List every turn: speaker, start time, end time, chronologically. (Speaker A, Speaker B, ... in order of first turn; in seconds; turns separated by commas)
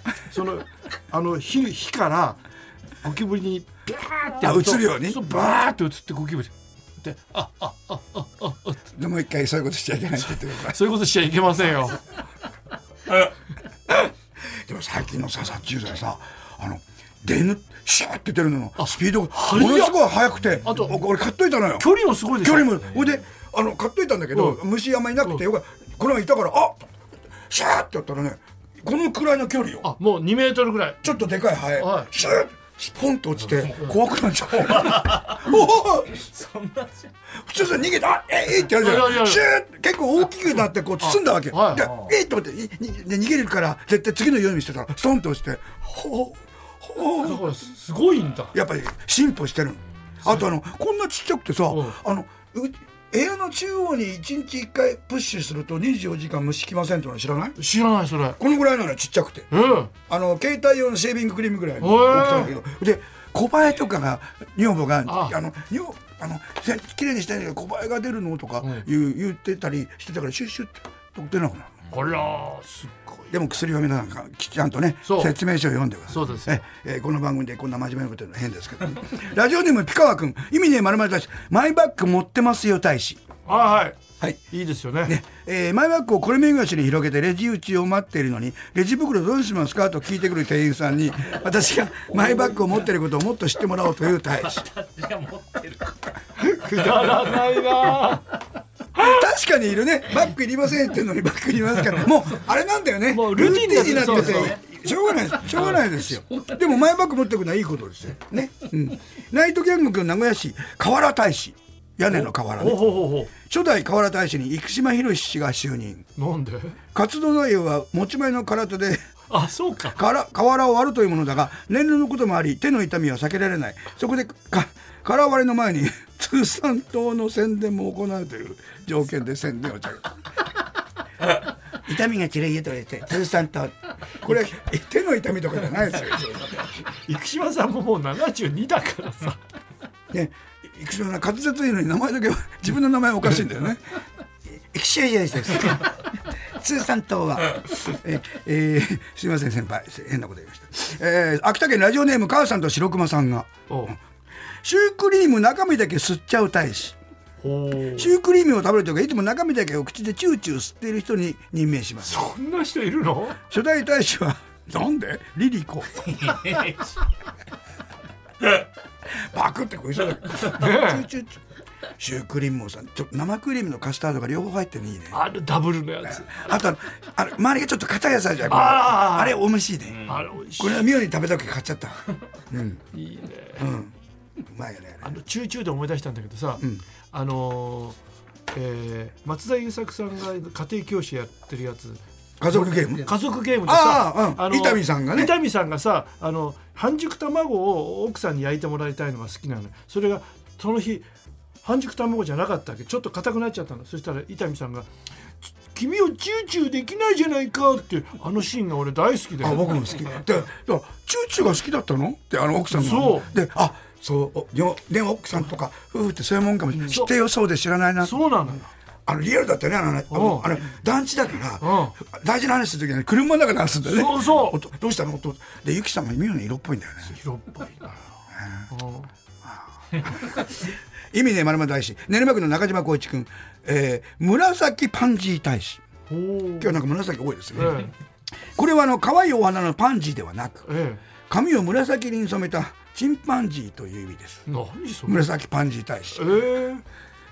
Speaker A: 0.3-2.4, Speaker A: 3.0-8.8, Speaker B: 4.4-5.3, Speaker B: 8.9-10.8, Speaker A: 10.6-12.0, Speaker B: 13.9-26.9, Speaker A: 18.8-20.0, Speaker A: 20.6-21.0, Speaker A: 21.8-22.9, Speaker A: 24.3-24.6, Speaker B: 27.5-29.9, Speaker A: 29.8-31.1, Speaker B: 31.0-36.2, Speaker A: 31.8-32.1, Speaker C: 34.6-35.4, Speaker C: 36.1-37.1, Speaker B: 37.4-47.5, Speaker A: 38.7-39.4, Speaker A: 41.0-42.1, Speaker A: 47.2-48.5, Speaker B: 48.5-57.6, Speaker A: 51.7-52.0, Speaker A: 57.6-58.4, Speaker B: 58.4-71.8, Speaker A: 59.5-59.9, Speaker A: 61.8-62.5, Speaker A: 65.0-65.3, Speaker A: 68.6-68.8, Speaker A: 71.9-73.3, Speaker B: 73.3-83.2, Speaker A: 75.0-75.3, Speaker A: 76.1-76.6, Speaker A: 83.5-84.0, Speaker A: 84.5-85.2, Speaker B: 85.0-94.7, Speaker A: 92.2-92.5, Speaker C: 94.4-96.1, Speaker A: 96.4-98.3, Speaker C: 97.2-97.5, Speaker B: 99.0-116.0, Speaker A: 103.1-104.6, Speaker A: 105.5-105.8, Speaker A: 112.1-113.3, Speaker A: 116.2-116.8, Speaker B: 116.9-119.0, Speaker A: 119.3-120.0, Speaker B: 119.9-130.1, Speaker B: 131.8-136.5, Speaker A: 137.1-139.4, Speaker B: 140.1-143.8, Speaker B: 144.5-145.9, Speaker B: 146.6-153.9, Speaker A: 153.7-153.9, Speaker B: 154.6-156.9, Speaker A: 157.4-158.1, Speaker B: 157.9-162.2, Speaker A: 162.1-163.4, Speaker B: 163.5-166.1, Speaker C: 166.2-166.8, Speaker B: 169.2-171.4, Speaker A: 170.4-171.0, Speaker B: 172.0-175.2, Speaker A: 175.1-176.3, Speaker B: 176.1-182.8, Speaker A: 178.5-179.4, Speaker A: 180.1-180.9, Speaker A: 182.9-183.7, Speaker B: 183.6-185.2, Speaker A: 185.0-187.9, Speaker A: 188.5-192.0, Speaker B: 192.4-195.4, Speaker A: 192.5-201.1, Speaker A: 201.6-204.9, Speaker A: 205.6-209.7, Speaker B: 209.4-218.4, Speaker A: 212.7-213.3, Speaker A: 216.8-217.1, Speaker A: 218.0-218.7, Speaker B: 219.1-227.2, Speaker A: 220.1-220.5, Speaker A: 221.6-221.9, Speaker A: 223.8-224.6, Speaker A: 227.1-228.0, Speaker B: 228.4-228.7, Speaker A: 228.7-229.1, Speaker B: 229.4-235.8, Speaker A: 236.1-236.8, Speaker B: 236.6-237.9, Speaker A: 237.5-237.9, Speaker B: 238.5-240.7, Speaker A: 240.7-241.0, Speaker B: 241.3-244.5, Speaker A: 244.5-245.2, Speaker B: 245.1-246.5, Speaker A: 246.1-246.8